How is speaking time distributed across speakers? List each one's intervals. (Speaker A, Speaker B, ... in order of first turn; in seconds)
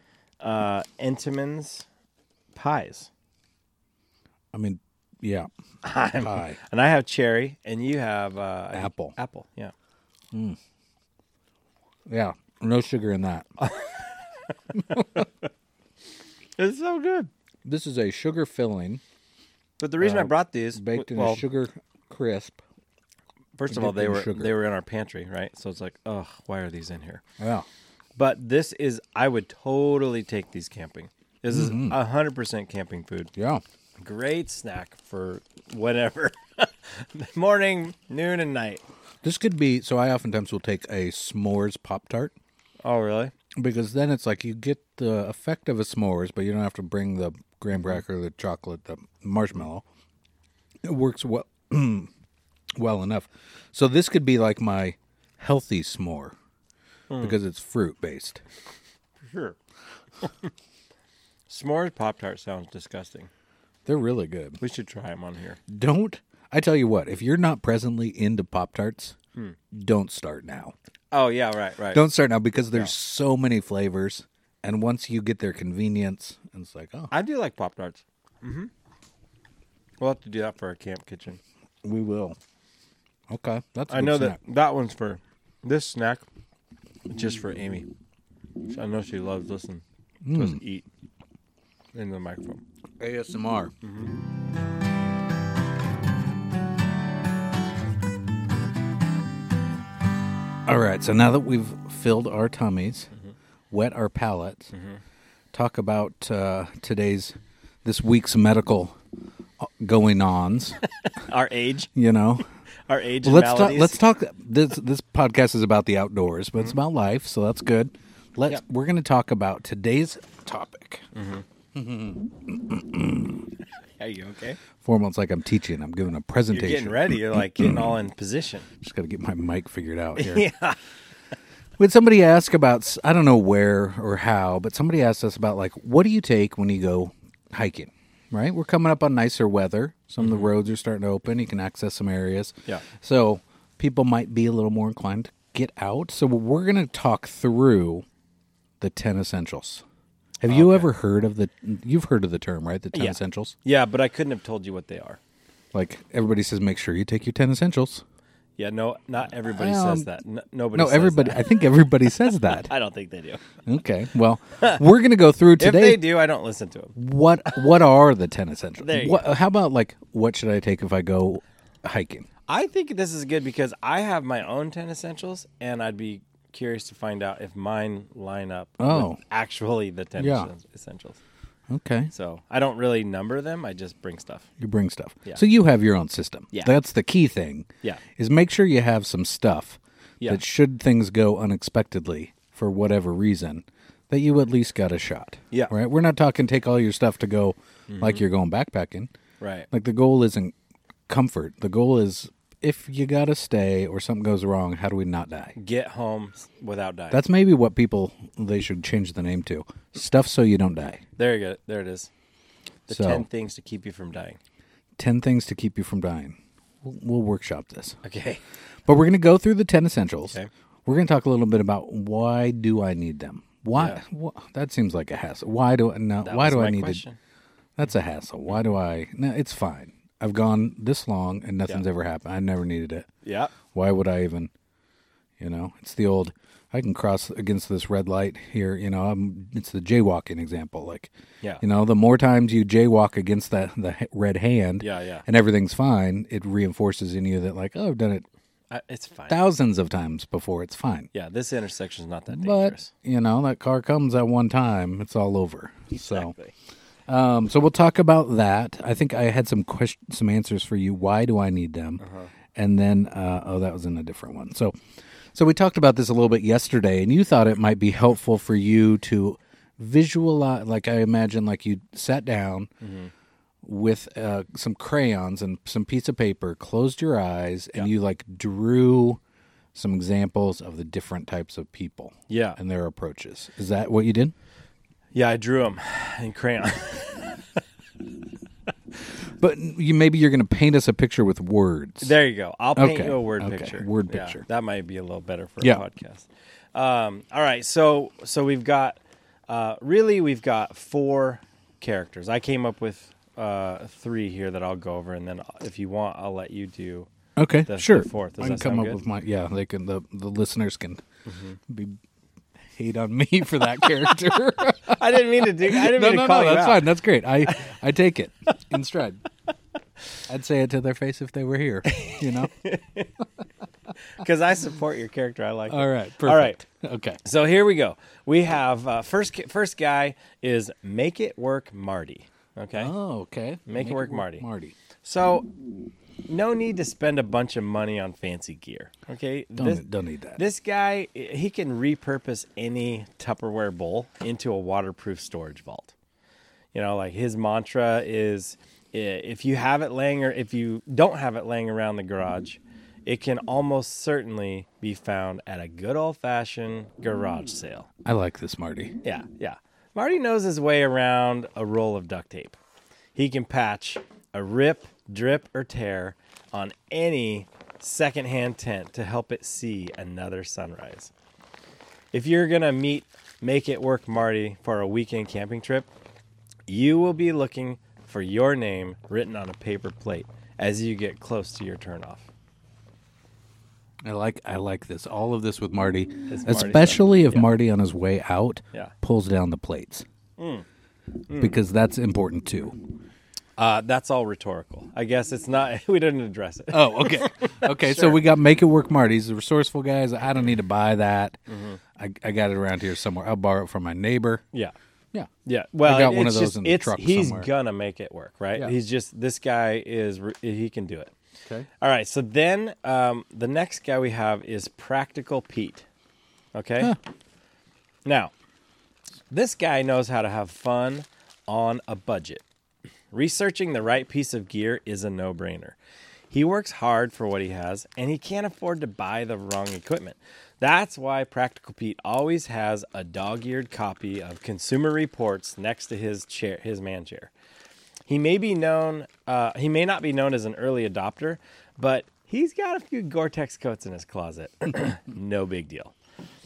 Speaker A: 0.4-1.9, 2.5-3.1, 5.8-9.7, 13.6-15.3, 16.6-17.3, 19.8-21.4, 23.6-27.2, 28.1-33.3, 34.0-38.8, 42.8-43.3, 57.1-57.4, 59.2-59.6, 60.2-60.5, 61.5-63.3, 64.6-65.6, 71.1-72.0, 77.1-78.7, 80.0-81.4, 83.9-86.2, 87.1-87.9, 88.7-90.8, 91.9-92.6, 93.8-94.1, 104.7-105.0, 111.0-111.9, 112.9-114.0, 121.1-121.4, 124.0-124.6, 126.5-128.7, 130.2-130.8, 140.2-140.5, 150.5-150.9, 152.9-155.2, 158.6-161.5, 162.1-163.4, 165.6-166.9, 168.8-169.3, 172.5-181.2, 182.1-184.5, 197.9-198.2, 199.4-199.7, 205.5-207.2, 211.2-212.1, 212.9-214.4, 218.0-218.4, 223.7-224.0, 226.2-227.2, 228.5-228.7, 233.2-233.5, 244.8-245.2, 248.7-249.4, 251.1-252.9, 255.9-256.5, 262.0-262.3, 272.8-273.1, 282.3-282.6, 285.1-287.6, 292.0-307.1, 307.7-309.0, 311.2-311.6, 314.9-316.9, 317.4-317.7, 321.9-323.1, 324.0-326.6, 327.2-332.9, 333.7-334.4, 335.0-335.5, 336.3-339.8, 340.4-345.9, 346.7-357.9, 359.0-362.6, 363.1-371.1, 372.1-375.9, 376.7-382.3, 386.3-387.5, 390.4-390.6, 391.3-391.6, 393.6-398.2, 401.5-401.8, 405.4-411.1, 411.8-415.9, 416.5-416.9, 418.0-418.3, 419.3-422.4, 423.1-425.8, 426.3-437.3, 438.1-445.9
Speaker B: 4.5-5.5, 6.2-6.6, 8.7-9.1, 10.3-10.6, 12.1-13.5, 14.9-15.2, 17.6-19.0, 20.0-22.6, 23.7-24.5, 27.4-27.7, 31.5-32.0, 33.4-33.6, 39.2-42.3, 43.6-49.8, 50.8-52.1, 52.8-56.3, 57.2-58.4, 63.9-64.6, 65.7-69.2, 69.7-70.7, 71.9-77.1, 81.8-82.4, 83.3-84.4, 90.2-90.6, 93.0-93.7, 100.7-103.1, 103.7-104.7, 105.5-109.0, 109.6-110.8, 111.9-112.4, 113.2-121.0, 121.7-123.5, 124.8-127.9, 128.8-130.5, 131.8-148.0, 148.8-149.8, 150.4-153.6, 155.7-158.0, 159.5-160.1, 160.7-162.7, 163.6-166.0, 166.9-172.3, 178.8-179.2, 180.2-180.5, 181.7-182.1, 184.6-199.1, 199.7-200.5, 201.1-205.5, 207.1-211.0, 212.9-213.2, 215.0-218.0, 218.8-227.0, 227.8-233.1, 233.7-234.5, 235.4-248.2, 249.3-251.1, 252.3-256.3, 257.1-262.0, 262.5-264.7, 265.3-272.7, 273.6-279.2, 279.7-284.3, 289.4-292.1, 292.7-294.4, 307.4-311.0, 311.7-312.0, 312.6-319.2, 320.3-322.5, 325.7-327.2, 332.8-334.7, 339.6-340.4, 358.0-358.9, 384.0-390.1, 391.4-392.8, 396.7-401.4, 401.9-404.4, 405.8-407.5